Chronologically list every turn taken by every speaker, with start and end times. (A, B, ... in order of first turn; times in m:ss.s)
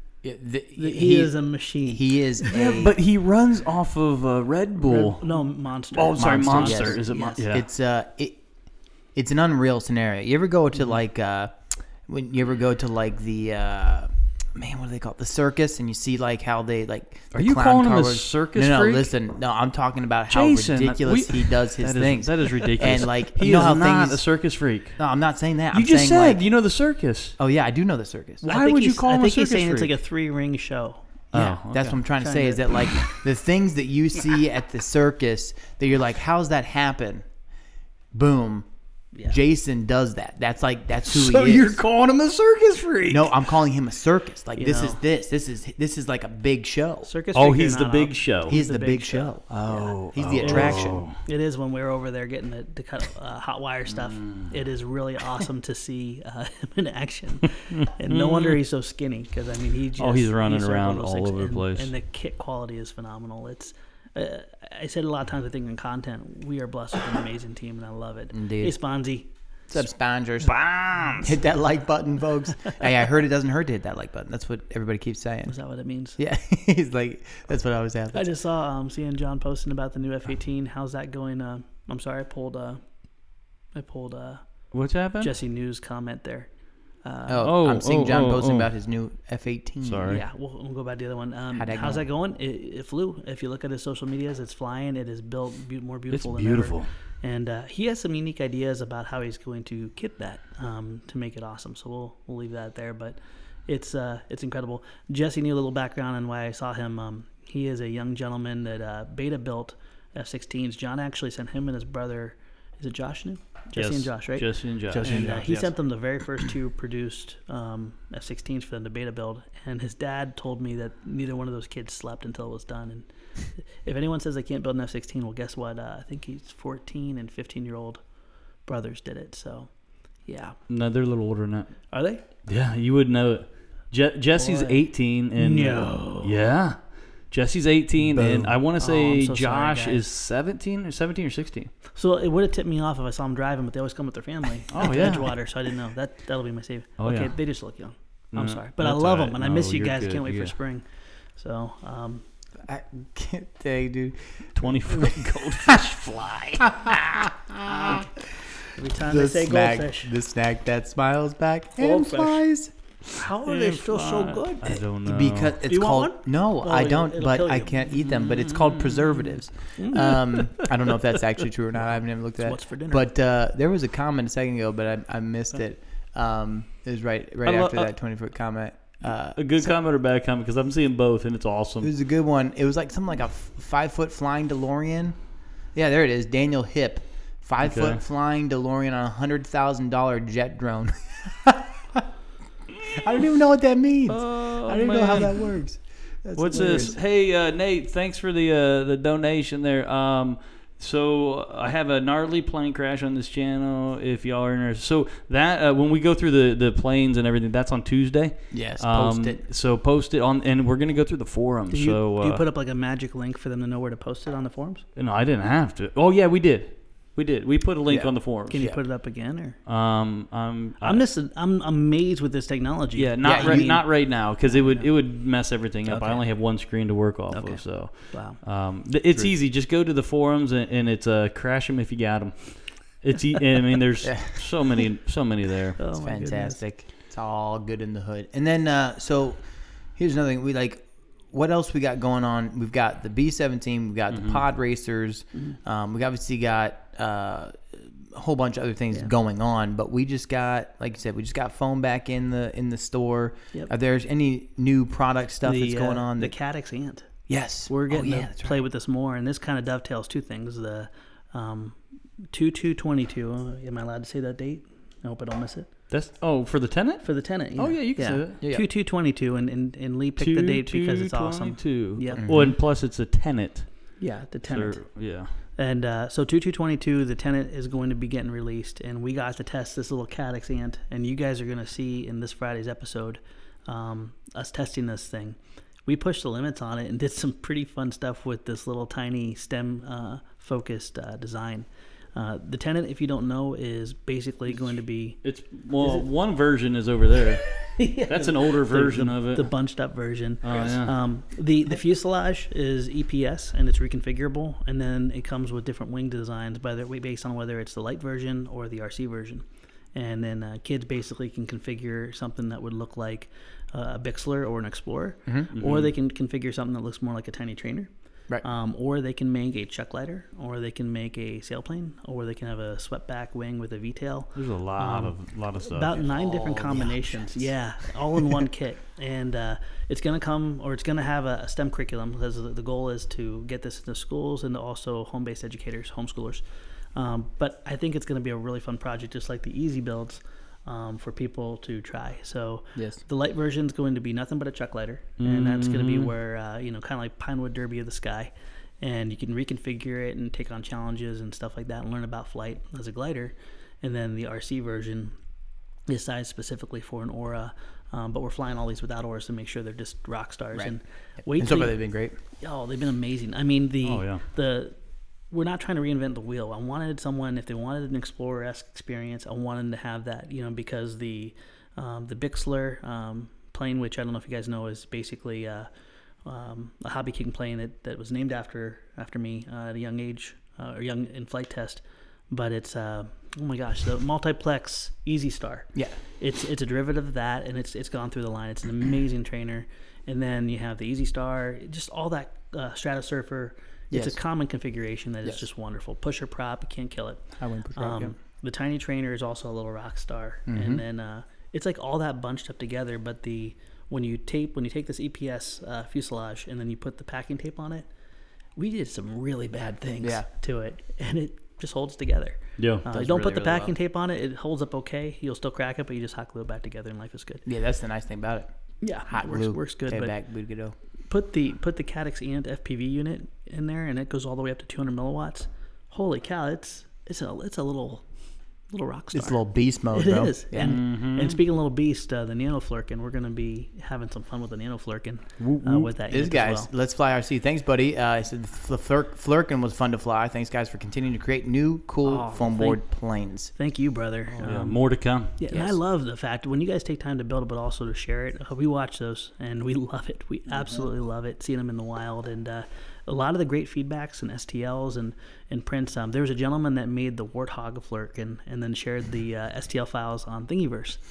0:00.2-0:03.0 A
0:00.8-0:02.5 B
0:02.5-0:05.3 C
0:04.8-0:05.2 A
0:04.8-0:07.4 B
0:05.9-0:07.7 C
0:06.2-0:08.4 A
0:09.2-0:11.6 A
0:12.1-0:24.2 A
0:17.3-0:19.1 C
0:20.3-0:25.0 C
0:25.0-0:26.4 A
0:25.7-0:27.4 C
0:27.4-0:28.5 A
0:28.4-0:31.5 B
0:28.4-0:29.9 C
0:31.3-0:32.0 C
0:31.4-0:37.2 A
0:32.2-0:32.7 B
0:38.1-0:38.7 A
0:39.3-0:41.8 A
0:41.0-0:43.4 C
0:43.1-0:47.1 A
0:44.6-0:45.0 B
0:47.0-1:09.3 B
0:47.3-0:48.6 C
0:48.5-0:51.0 A
0:49.5-0:51.2 C
0:54.0-0:54.5 C
0:58.1-0:58.6 C
1:00.0-1:01.9 C
1:08.3-1:08.8 A
1:09.7-1:10.6 A
1:10.4-1:11.3 C
1:11.2-1:15.6 A
1:15.5-1:16.2 B
1:16.2-1:18.3 A
1:18.1-1:22.8 B
1:23.8-1:24.4 B
1:24.7-1:25.3 C
1:25.2-1:26.5 B
1:27.0-1:27.5 B
1:27.3-1:30.2 A
1:27.4-1:28.7 C
1:29.8-1:30.2 C
1:30.1-2:08.0 B
1:31.5-1:32.0 A
1:36.1-1:36.9 C
1:53.8-1:55.7 C
1:54.9-1:55.7 A
2:08.7-2:09.7 B
2:10.3-2:10.6 B
2:10.7-2:11.9 C
2:11.9-2:12.2 B
2:12.4-2:21.7 C
2:14.4-2:14.8 B
2:15.4-2:16.3 B
2:18.0-2:18.6 A
2:18.8-2:20.1 B
2:21.9-2:32.2 B
2:24.7-2:25.3 C
2:27.0-2:27.4 C
2:28.3-2:30.5 C
2:32.6-2:35.8 A
2:34.6-2:37.0 C
2:36.6-2:42.7 A
2:38.8-2:40.1 B
2:41.8-2:42.4 B
2:43.1-2:44.8 B
2:43.4-2:45.6 C
2:45.0-2:59.8 A
2:45.6-2:47.9 B
2:48.1-2:49.3 C
2:49.8-2:51.0 B
2:52.4-2:53.1 B
2:57.4-2:57.9 C
2:59.4-3:01.9 C
3:01.8-3:05.2 A
3:05.7-3:12.1 A
3:07.6-3:08.0 C
3:12.8-3:17.0 A
3:14.1-3:15.6 C
3:16.4-3:32.4 C
3:16.5-3:16.9 B
3:28.5-3:29.4 A
3:31.7-3:34.8 B
3:35.0-3:38.7 C
3:37.9-3:38.8 A
3:38.5-3:39.6 B
3:39.7-3:41.0 C
3:40.8-3:44.9 B
3:43.0-3:55.8 C
3:43.2-3:43.8 A
3:45.9-3:46.2 B
3:47.3-3:48.4 B
3:54.0-3:54.4 A
3:55.8-3:56.6 B
3:56.0-3:59.4 A
4:00.0-4:16.3 A
4:04.1-4:04.4 C
4:15.4-4:17.1 B
4:17.3-4:18.6 A
4:17.7-4:21.8 B
4:22.3-4:25.7 B
4:25.9-4:28.4 C
4:27.0-4:32.2 B
4:28.4-4:28.7 A
4:30.2-4:33.7 C
4:32.2-4:32.6 A
4:34.0-4:34.9 B
4:34.5-4:35.3 C
4:35.6-4:55.2 B
4:55.2-4:59.5 C
4:57.6-5:09.4 B
5:00.4-5:00.9 C
5:10.0-5:17.9 B
5:15.6-5:15.9 C
5:18.4-5:36.4 B
5:24.4-5:26.0 C
5:26.0-5:27.5 A
5:37.0-5:55.1 B
5:42.8-5:43.0 A
5:45.2-5:46.1 C
5:55.9-6:01.8 B
6:01.3-6:02.2 A
6:02.4-6:04.8 B
6:03.8-6:04.2 C
6:05.3-6:15.7 B
6:16.2-6:47.9 B
6:33.9-6:34.2 A
6:37.4-6:38.1 A
6:40.5-6:40.8 A
6:48.6-6:57.4 B
6:50.0-6:50.3 A
6:52.6-6:52.8 C
6:52.9-6:53.7 A
6:57.5-6:58.5 A
6:58.8-7:00.1 B
6:59.1-7:00.8 A
7:01.1-7:08.0 B
7:08.7-7:16.7 B
7:09.1-7:10.8 A
7:10.6-7:11.4 C
7:15.4-7:15.9 C
7:16.1-7:23.5 A
7:22.0-7:22.8 B
7:23.5-7:24.8 B
7:24.4-7:25.4 C
7:25.4-7:41.0 B
7:25.5-7:25.8 A